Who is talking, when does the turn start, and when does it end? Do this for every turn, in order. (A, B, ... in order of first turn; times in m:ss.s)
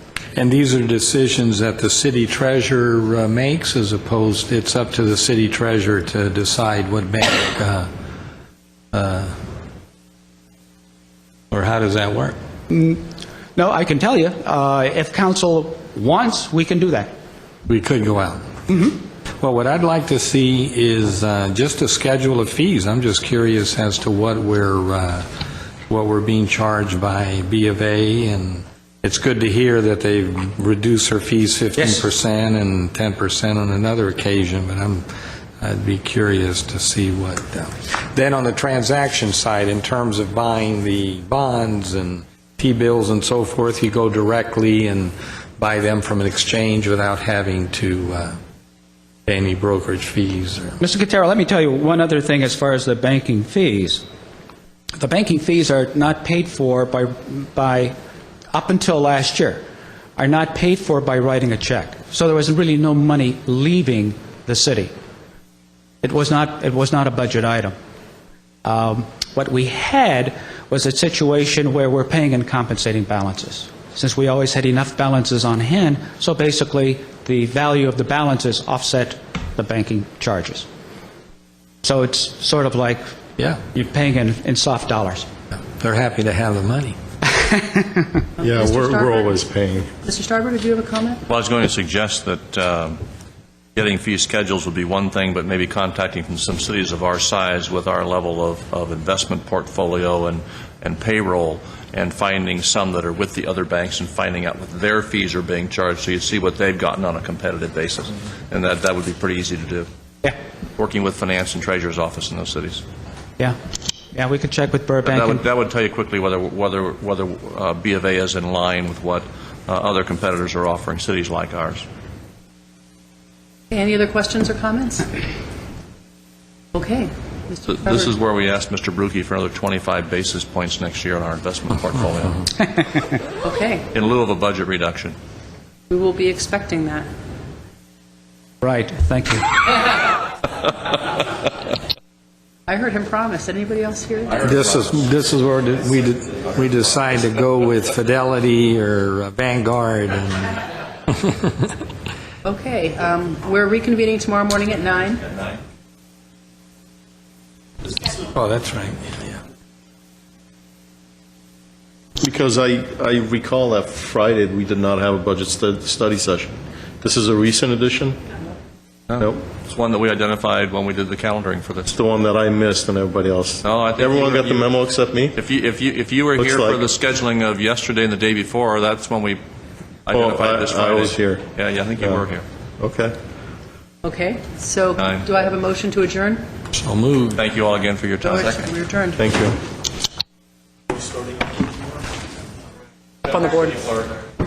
0:00.4-0:07.9 A
0:08.9-0:09.4 A
0:11.5-0:12.4 A
0:12.7-0:13.0 B
0:13.6-0:17.1 B
0:17.7-0:25.3 A
0:25.9-0:35.0 A
0:31.8-0:32.0 B
0:35.6-0:48.4 A
0:49.3-0:50.8 A
0:50.8-0:54.0 B
0:55.0-0:58.0 B
0:58.5-0:59.6 B
1:00.2-1:04.9 B
1:06.0-1:07.8 B
1:08.6-1:20.7 B
1:21.8-1:23.0 B
1:23.7-1:25.3 B
1:25.8-1:27.0 A
1:27.5-1:28.0 B
1:28.4-1:29.5 C
1:28.4-1:29.9 D
1:30.0-1:31.2 C
1:31.3-1:33.0 E
1:33.8-1:49.9 E
1:50.8-1:52.8 E
1:54.1-1:55.4 B
1:55.0-2:01.9 E
2:03.7-2:05.1 C
2:06.7-2:08.1 C
2:07.7-2:12.5 E
2:13.4-2:13.9 C
2:13.9-2:15.2 E
2:15.9-2:17.1 C
2:18.6-2:19.6 B
2:22.7-2:24.5 C
2:24.4-2:31.7 A
2:32.4-2:35.4 C
2:38.2-2:39.4 A
2:42.2-2:48.2 D
2:49.1-2:52.0 E
2:51.9-2:55.4 D
2:53.6-2:54.8 E
2:55.3-2:59.4 E
2:56.4-2:56.8 D
3:00.1-3:02.4 E
3:00.1-3:01.4 D
3:02.0-3:02.2 D
3:02.8-3:03.2 D
3:04.0-3:06.4 C
3:05.0-3:05.3 E
3:06.7-3:07.4 A
3:07.4-3:08.7 E
3:08.2-3:09.3 C
3:09.2-3:09.6 D
3:13.3-3:13.9 C